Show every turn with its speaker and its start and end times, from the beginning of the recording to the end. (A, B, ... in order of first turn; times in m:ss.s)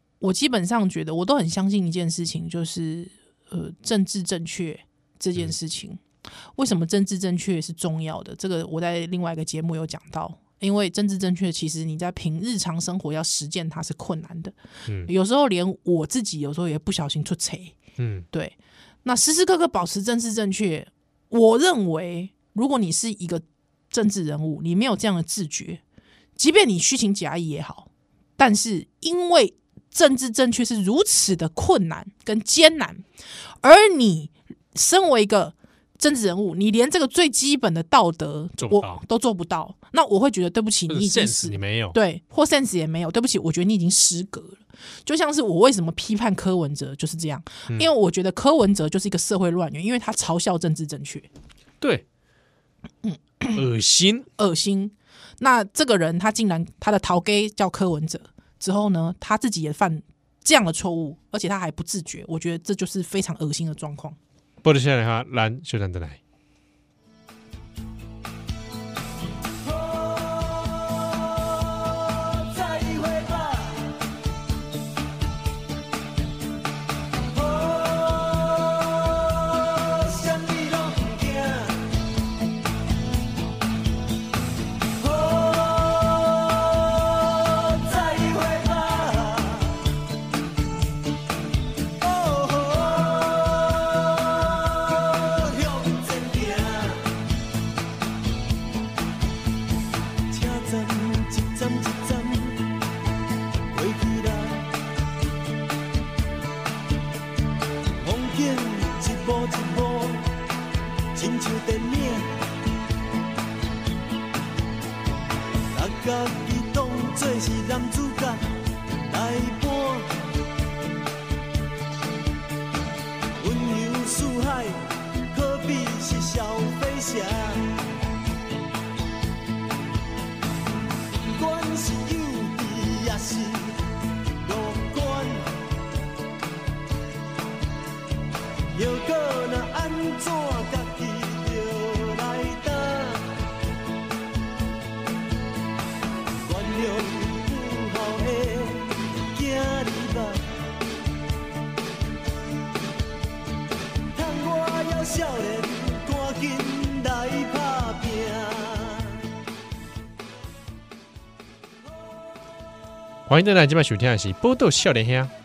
0:00.2-0:06.0 A
0:06.6-0:14.6 A
0:15.1-0:17.8 A
0:18.0-0:18.3 B
0:18.3-0:25.8 A
0:26.4-0:33.0 A
0:33.6-0:51.3 A
0:38.6-0:39.0 B
0:40.9-0:42.0 B
0:53.0-0:53.6 A
0:53.5-0:54.3 B
0:54.4-1:04.2 A
1:04.6-1:06.2 B
1:09.6-1:13.9 C
1:17.3-1:21.9 C
1:25.0-1:29.8 C
1:32.0-1:37.1 C
1:40.3-1:42.6 C
1:43.7-1:44.7 C
1:48.0-1:50.3 C
1:51.1-1:52.3 C
1:55.7-1:58.4 C
1:59.1-2:00.1 C
2:03.4-2:07.8 C
2:11.2-2:13.8 C
2:14.4-2:15.6 C
2:18.7-2:23.4 C
2:26.4-2:30.4 C
2:34.1-2:39.2 C
2:43.3-2:45.3 B